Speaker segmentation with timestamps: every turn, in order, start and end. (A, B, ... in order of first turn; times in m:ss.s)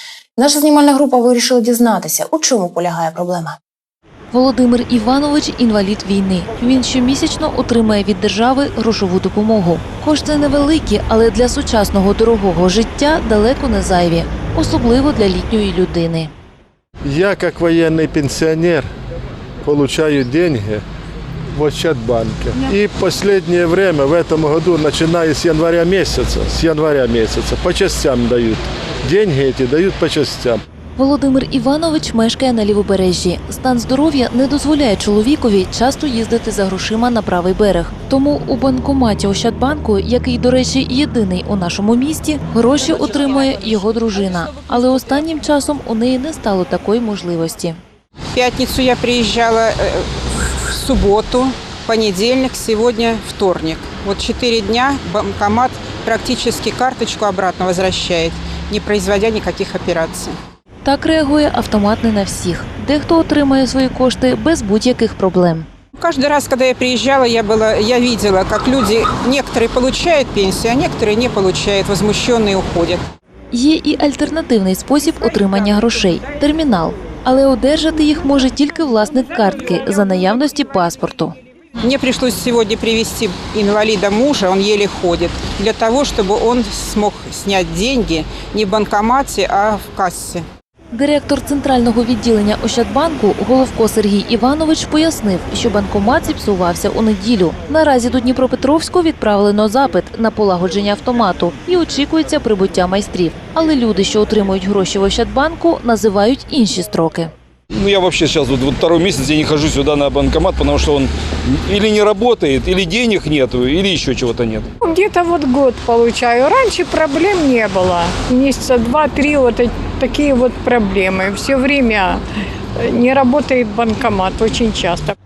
0:00.4-0:03.6 A
0:04.3-0:16.3 B
0:17.0-0:18.9 C
0:19.6-0:20.8 C
0:21.5-0:30.6 C
0:31.0-0:47.8 B
0:48.3-1:00.4 D
1:00.8-1:05.7 B
1:06.0-1:13.0 D
1:13.5-1:21.4 B
1:21.8-1:30.4 D
1:30.9-1:47.3 B
1:47.7-1:54.7 E
1:54.8-2:02.2 F
2:02.8-2:05.1 F